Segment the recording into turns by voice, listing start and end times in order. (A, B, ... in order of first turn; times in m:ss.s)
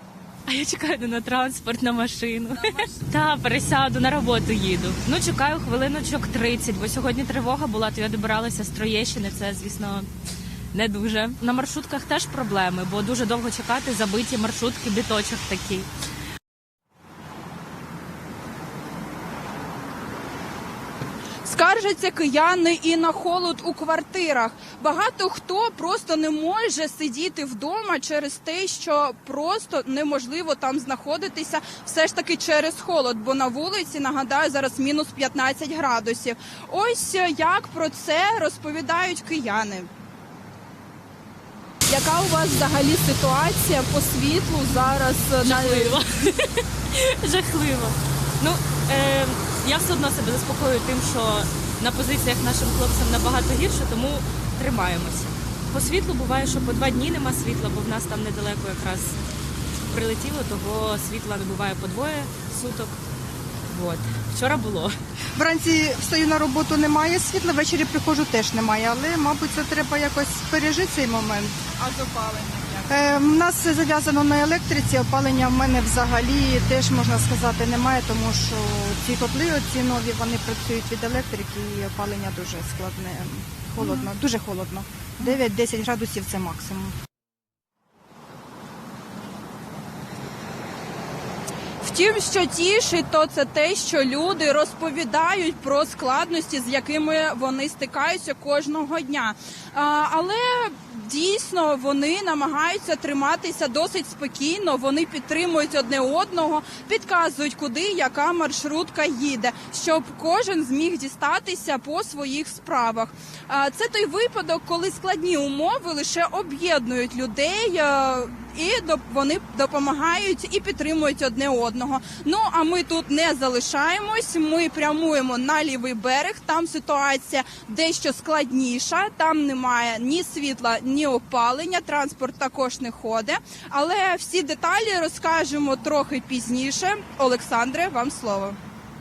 0:00.5-0:10.1 A
0:10.7-0:15.9 A
0:21.4-0:39.9 B
0:41.9-0:46.0 B
0:45.4-0:59.2 A
0:59.9-1:03.0 A
1:03.7-1:05.0 A
1:05.4-1:11.7 C
1:12.0-1:12.8 B
1:12.9-1:26.9 C
1:23.8-1:24.1 B
1:31.8-2:18.6 B